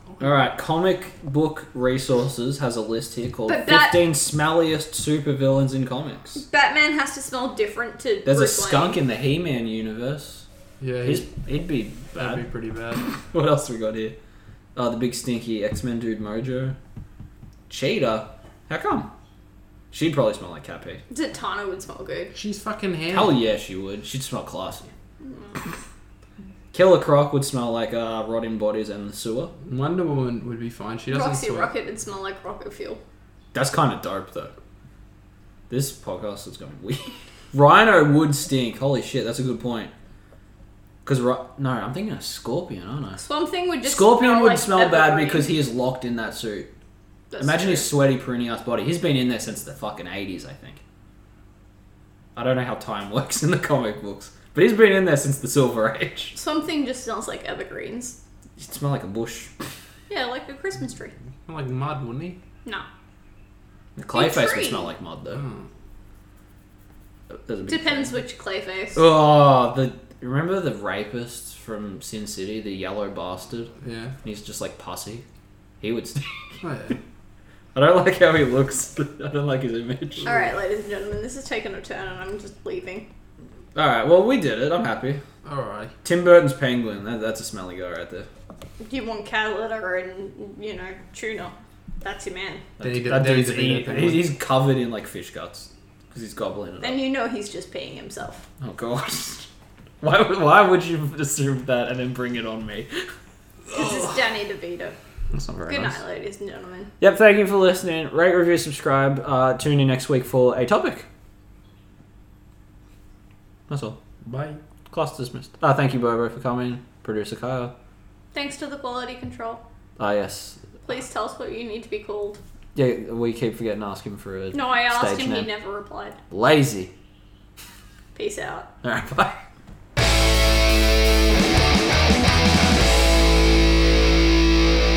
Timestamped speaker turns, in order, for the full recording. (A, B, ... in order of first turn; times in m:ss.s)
0:00.2-0:06.4 A
0:03.5-0:04.0 B
0:06.5-0:09.0 B
0:08.2-0:10.5 A
0:10.8-0:11.3 C
0:11.0-0:12.4 A
0:12.2-0:13.1 C
0:13.1-0:14.2 A
0:14.8-0:16.8 A
0:17.7-0:19.1 A
0:19.9-0:21.0 A
0:21.1-0:22.3 B
0:22.3-0:23.4 C
0:23.1-0:24.9 A
0:25.2-0:25.6 B
0:26.7-0:29.5 A
0:29.6-0:31.7 C
0:31.1-0:33.0 B
0:33.5-0:34.5 A
0:35.7-0:39.9 A
0:41.0-0:43.2 A
0:43.2-0:45.5 B
0:43.9-0:46.7 A
0:47.3-0:47.9 B
0:47.4-0:50.8 A
0:52.4-0:56.4 A
0:56.3-0:58.2 B
0:58.6-0:59.5 A
1:00.1-1:01.1 B
1:01.5-1:02.4 C
1:04.0-1:05.4 A
1:04.1-1:04.9 B
1:05.4-1:05.6 C
1:07.3-1:08.2 A
1:07.7-1:09.0 B
1:09.0-1:13.7 A
1:13.8-1:14.2 C
1:14.2-1:15.2 A
1:15.8-1:16.6 A
1:16.6-1:17.0 C
1:17.8-1:20.4 A
1:20.2-1:23.1 B
1:23.8-1:25.2 A
1:25.4-1:25.9 C
1:26.0-1:28.3 A
1:28.8-1:32.7 B
1:32.8-1:37.0 A
1:32.8-1:34.2 C
1:36.8-1:38.5 B
1:38.6-1:39.5 A
1:40.0-1:43.1 A
1:43.7-1:45.0 B
1:45.3-1:46.0 A
1:45.7-1:46.9 B
1:47.0-1:51.1 A
1:53.7-1:54.1 A
1:54.2-1:54.6 C
1:54.9-1:57.7 A
1:58.3-1:59.6 B
2:00.0-2:00.6 A
2:00.8-2:02.4 B
2:02.8-2:05.5 A
2:04.5-2:06.2 B
2:06.3-2:06.9 A
2:08.2-2:08.7 B
2:08.8-2:09.4 A